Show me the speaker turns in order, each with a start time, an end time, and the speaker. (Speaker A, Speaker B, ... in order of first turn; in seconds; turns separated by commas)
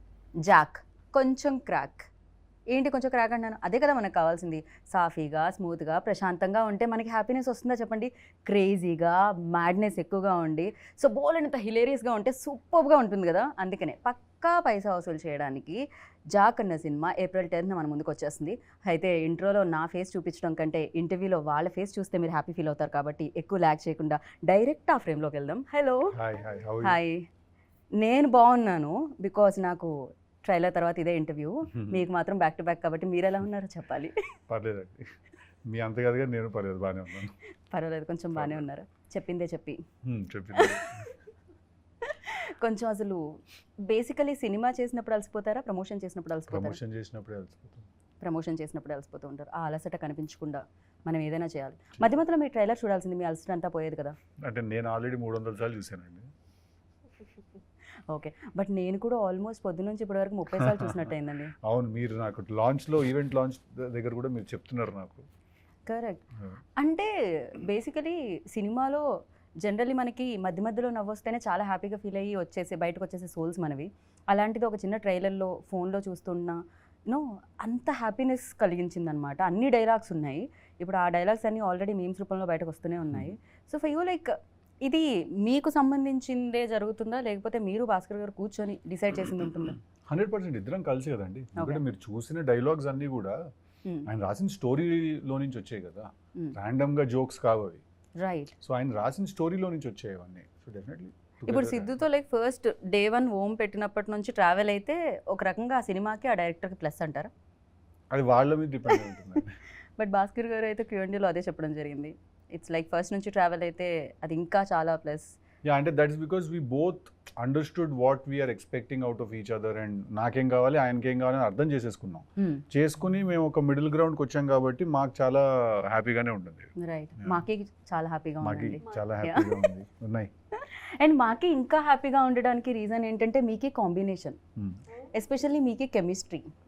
Speaker A: 0.4-2.1, Speaker A: 2.7-15.8, Speaker A: 16.3-26.1, Speaker B: 26.1-27.0, Speaker A: 26.8-27.2, Speaker A: 28.0-34.1, Speaker B: 31.7-32.0, Speaker B: 34.5-37.3, Speaker A: 37.7-39.8, Speaker B: 38.4-38.6, Speaker B: 40.0-41.1, Speaker A: 40.5-41.1, Speaker A: 42.0-43.2, Speaker A: 43.8-46.8, Speaker B: 46.5-47.9, Speaker A: 48.2-54.1, Speaker B: 54.4-56.3, Speaker A: 58.1-61.5, Speaker B: 60.5-61.1, Speaker B: 61.6-65.2, Speaker A: 65.9-66.2, Speaker A: 66.8-69.0, Speaker A: 69.6-84.3, Speaker A: 84.8-89.8, Speaker B: 90.1-93.4, Speaker A: 91.6-91.8, Speaker B: 94.1-97.8, Speaker A: 98.2-98.5, Speaker B: 98.6-101.9, Speaker A: 101.5-107.3, Speaker B: 108.1-109.6, Speaker A: 110.0-115.4, Speaker B: 115.6-127.4, Speaker A: 122.4-122.6, Speaker A: 126.8-129.7, Speaker B: 128.4-130.3, Speaker A: 130.5-134.4, Speaker A: 135.0-136.5